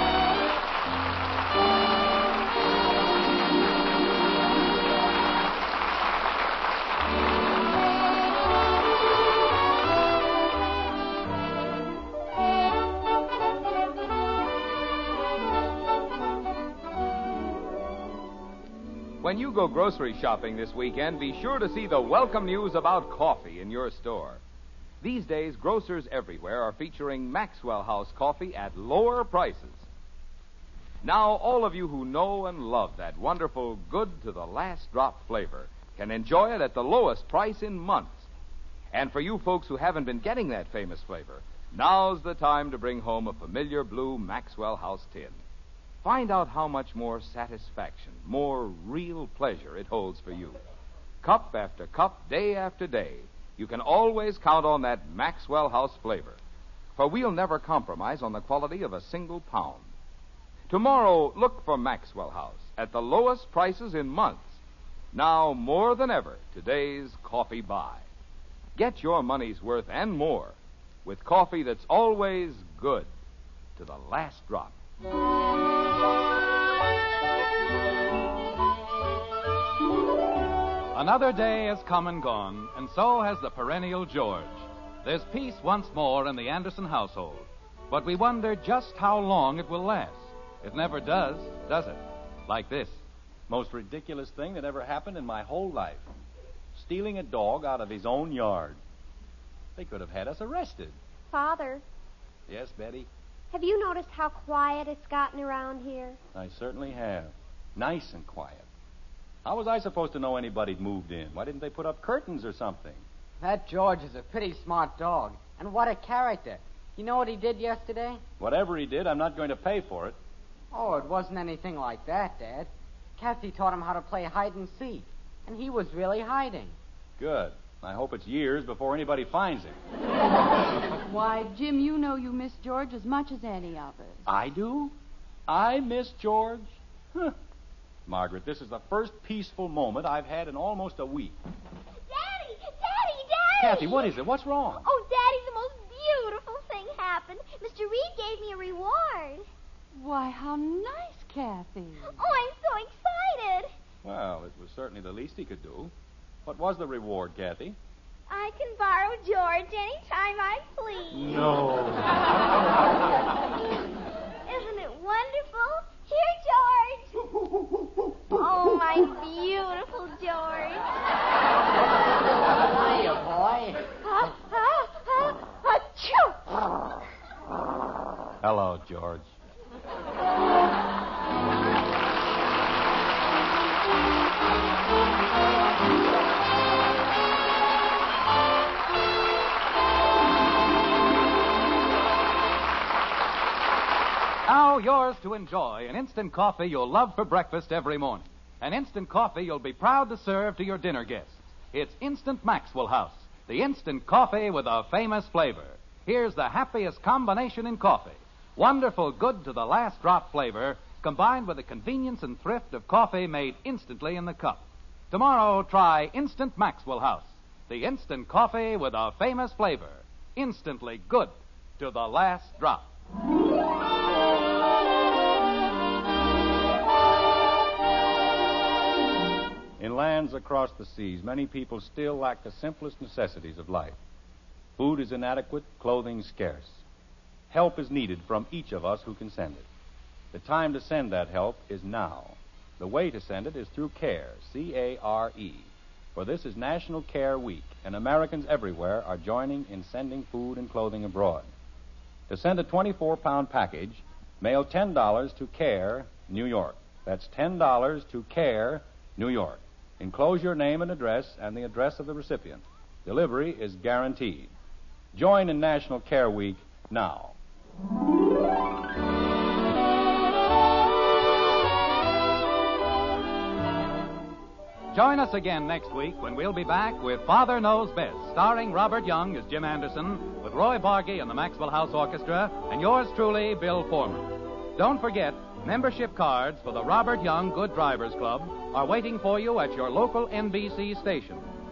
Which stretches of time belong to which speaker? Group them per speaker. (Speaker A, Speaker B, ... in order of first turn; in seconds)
Speaker A: 19.2-24.4, 25.0-29.9, 31.0-38.3, 38.9-45.4, 46.0-50.6, 51.2-56.4, 56.9-59.9, 60.7-64.6, 65.1-68.0, 68.8-73.1, 73.8-74.8
Speaker B: 80.9-93.0, 194.4-222.9, 274.9-291.5
Speaker C: 93.5-96.1, 96.7-98.8, 99.8-101.0, 102.5-103.1, 106.3-108.7, 109.4-113.0, 118.4-120.2, 127.2-129.8, 134.2-134.9, 135.5-137.3, 138.1-141.4, 143.6-144.8, 154.0-155.9, 156.4-157.8, 161.1-162.1, 178.4-179.3, 229.8-234.0, 234.8-236.8, 237.5-239.7, 240.3-251.5, 252.3-264.5, 265.1-267.4
Speaker D: 101.3-101.8, 103.5-106.2
Speaker E: 113.4-118.2, 120.7-126.7, 172.8-173.8
Speaker F: 130.9-134.2, 149.9-152.2
Speaker G: 142.1-144.2, 144.7-149.5, 152.1-153.7, 158.3-161.4, 164.4-167.3, 168.3-170.8, 174.0-176.4